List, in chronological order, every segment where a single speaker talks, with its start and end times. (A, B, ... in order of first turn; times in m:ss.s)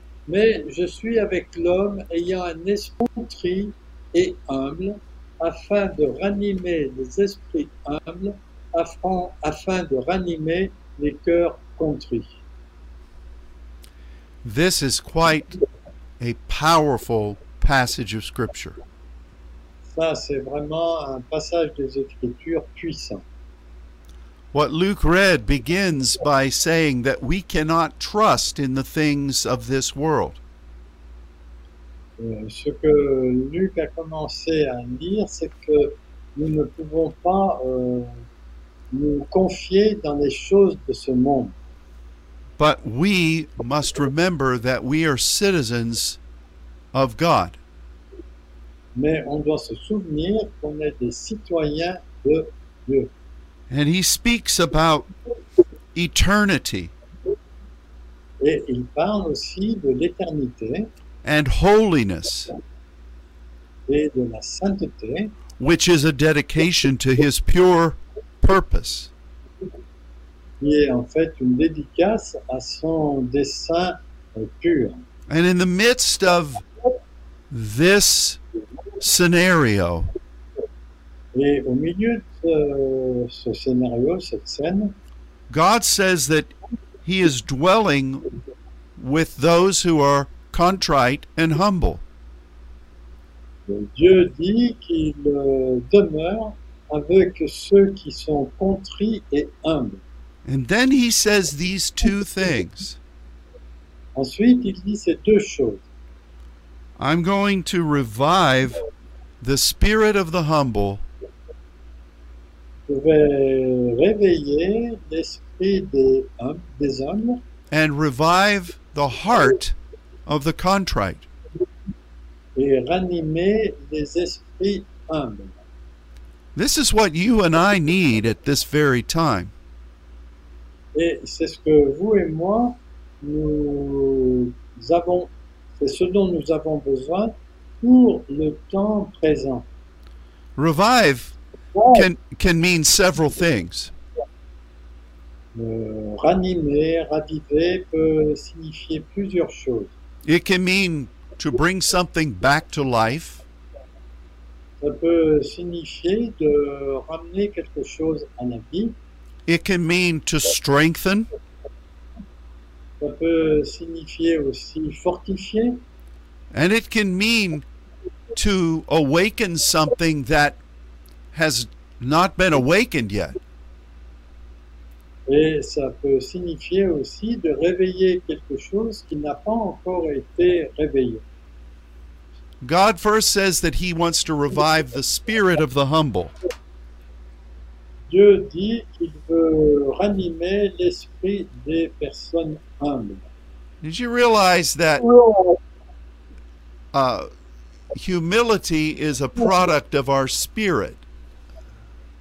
0:00.3-0:12.4 A
0:14.4-0:15.6 B
0:16.2-0:18.8 B
0:19.9-0:23.3 A
0:24.5-0:30.4 B
0:32.2-0:38.2 A
0:38.9-0:41.6 A
0:42.6-0:46.2 B
0:46.9-0:47.6 B
0:49.0-0:53.1 A
0:53.7-0:55.1 B
0:56.0-0:56.9 B
0:58.4-1:00.9 A
1:01.2-1:02.5 B
1:03.9-1:05.3 A
1:05.6-1:09.1 B
1:10.6-1:15.1 A
1:15.3-1:16.6 B
1:17.5-1:18.4 B
1:19.0-1:20.1 B
1:21.3-1:25.0 A
1:25.5-1:26.5 B
1:27.0-1:28.3 B
1:29.0-1:32.0 B
1:33.7-1:40.0 A
1:40.5-1:43.0 B
1:44.2-1:45.8 A
1:47.0-1:48.8 B
1:49.4-1:51.0 B
1:52.9-1:57.4 A
1:57.7-2:01.3 B
2:02.6-2:05.6 A
2:06.6-2:09.5 B
2:10.9-2:19.7 A
2:20.6-2:21.4 B
2:21.9-2:23.9 B
2:25.6-2:29.9 A
2:30.2-2:33.4 B
2:34.8-2:39.0 A
2:39.5-2:41.3 B
2:43.0-2:45.8 A
2:46.5-2:47.6 B
2:48.3-2:50.6 B
2:51.3-2:53.4 B
2:55.3-3:01.2 A
3:02.6-3:06.3 B
3:08.1-3:13.3 A
3:13.8-3:15.2 B
3:16.9-3:17.3 B
3:17.9-3:21.0 B